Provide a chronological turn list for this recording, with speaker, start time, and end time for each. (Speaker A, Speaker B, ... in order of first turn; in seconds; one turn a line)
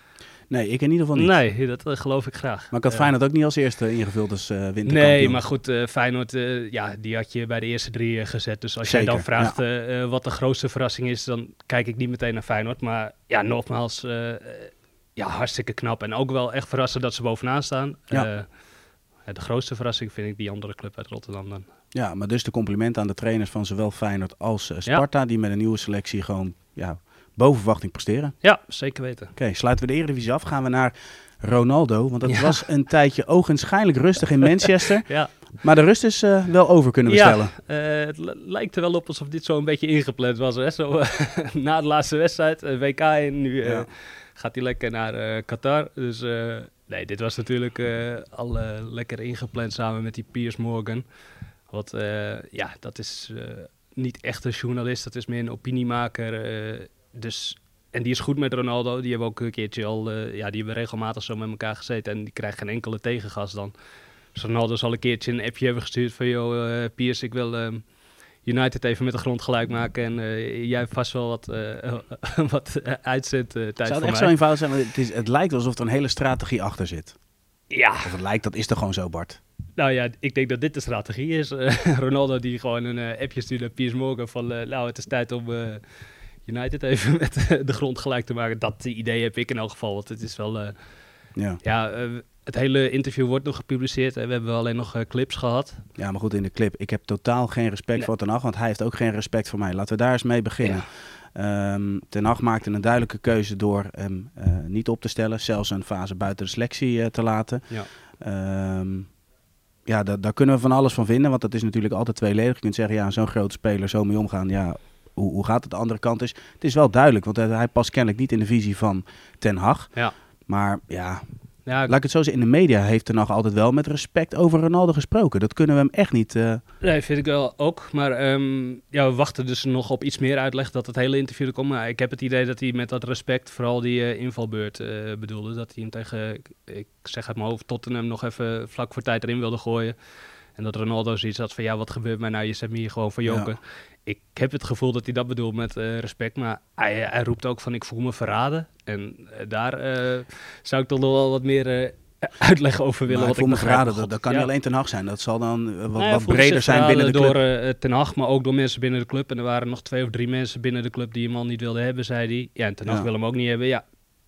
Speaker A: 0.5-1.4
Speaker B: 1.1-3.1
Speaker A: 2.7-5.4
Speaker B: 4.8-18.5
Speaker A: 8.8-9.6
Speaker B: 19.2-21.7
Speaker A: 21.9-28.4
Speaker B: 28.4-29.3
Speaker A: 29.4-37.5
Speaker B: 32.3-32.6
Speaker B: 35.1-35.4
Speaker B: 37.1-51.1
Speaker A: 43.6-43.9
Speaker B: 51.7-63.7
Speaker B: 64.3-67.8
Speaker B: 68.4-74.3
Speaker A: 73.8-77.2
Speaker B: 77.7-78.1
Speaker A: 78.0-79.4
Speaker B: 79.8-85.8
Speaker B: 86.4-90.8
Speaker A: 91.4-91.6
Speaker B: 91.6-95.9
Speaker A: 96.0-109.1
Speaker A: 109.9-126.6
Speaker B: 121.7-122.0
Speaker B: 126.8-140.0
Speaker B: 140.6-154.5
Speaker A: 143.3-143.5
Speaker A: 153.1-157.4
Speaker B: 155.9-163.8